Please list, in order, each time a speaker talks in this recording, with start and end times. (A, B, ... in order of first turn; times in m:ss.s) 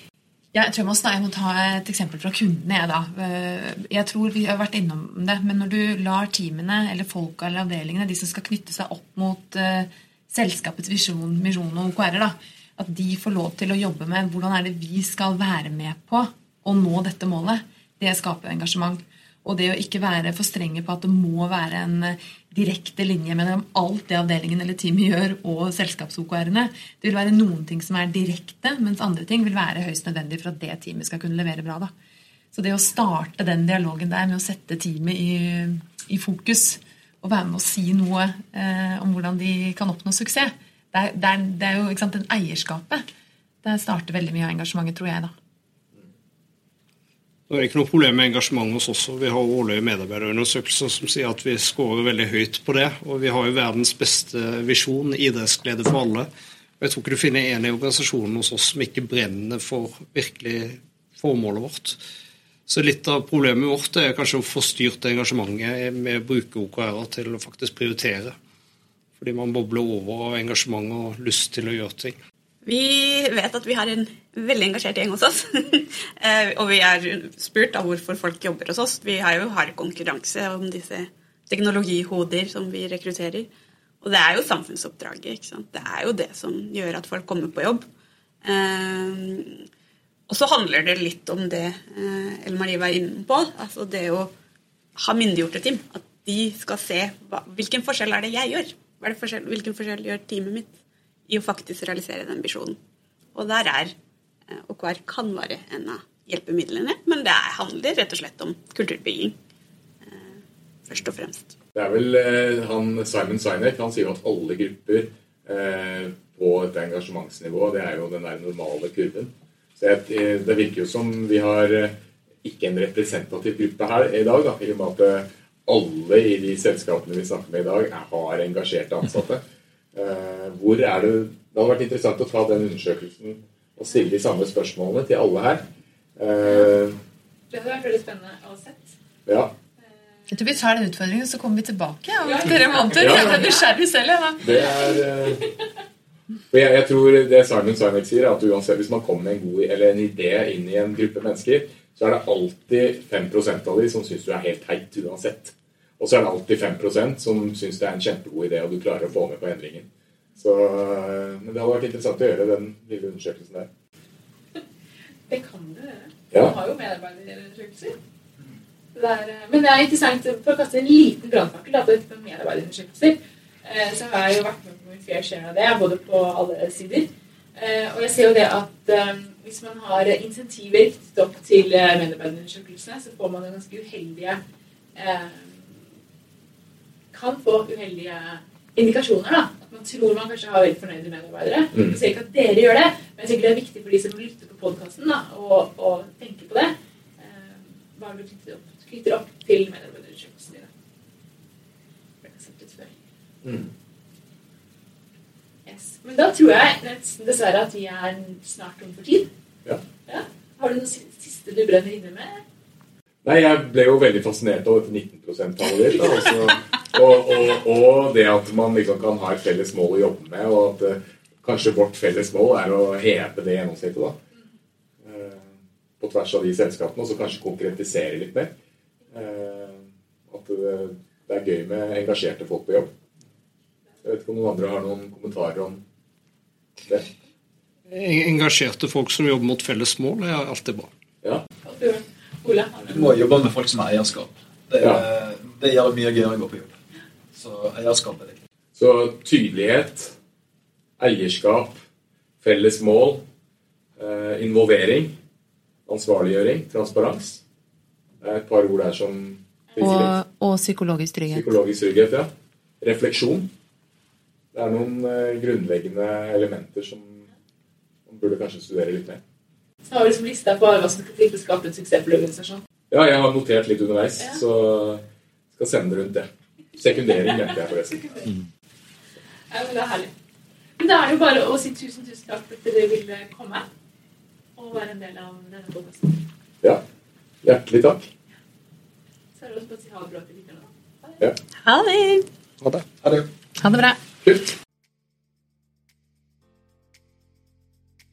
0:00.5-0:31.9 A
0:32.5-0:43.0 A
0:43.6-0:45.3 A
0:47.5-0:56.3 B
0:56.8-1:02.0 B
1:02.7-1:08.4 B
1:09.2-1:12.2 B
1:12.6-1:23.5 C
1:24.0-1:27.8 C
1:28.4-1:29.6 C
1:30.3-1:34.3 C
1:35.0-1:40.7 C
1:41.3-1:42.8 C
1:43.4-1:43.9 C
1:44.5-1:49.4 C
1:50.0-1:51.6 C
1:51.8-2:09.4 D
2:10.0-2:17.0 D
2:17.5-2:18.9 E
2:19.3-2:19.5 D
2:20.3-2:24.5 A
2:22.2-2:23.6 E
2:23.0-2:23.5 D
2:24.4-2:25.4 D
2:26.5-2:39.9 D
2:40.4-2:43.7 D
2:45.3-2:48.0 E
2:48.9-3:04.4 E
3:05.0-3:05.8 E
3:07.1-3:20.7 E
3:11.7-3:12.0 D
3:22.2-3:23.0 E
3:23.4-3:23.7 D
3:25.7-3:29.3 E
3:30.1-3:32.4 E
3:33.2-3:44.2 D
3:45.0-3:48.5 D
3:49.1-3:52.9 D
3:54.0-3:55.8 D
3:57.9-4:00.9 B
4:01.6-4:03.1 E
4:02.9-4:06.7 F
4:07.3-4:08.4 F
4:08.8-4:10.2 D
4:11.0-4:11.8 D
4:12.4-4:13.3 D
4:14.0-4:15.2 D
4:15.9-4:17.4 D
4:18.2-4:20.1 D
4:19.7-4:20.1 E
4:19.8-4:21.5 A
4:21.3-4:23.5 D
4:24.5-4:27.3 D
4:28.1-4:29.2 D
4:29.9-4:32.6 E
4:32.9-4:38.3 D
4:37.0-4:38.3 E
4:39.5-4:40.1 E
4:40.8-4:43.7 E
4:44.6-4:46.2 E
4:47.4-4:48.1 D
4:49.4-4:51.2 E
4:51.6-4:52.2 A
4:52.6-4:52.9 B
4:53.6-4:54.0 A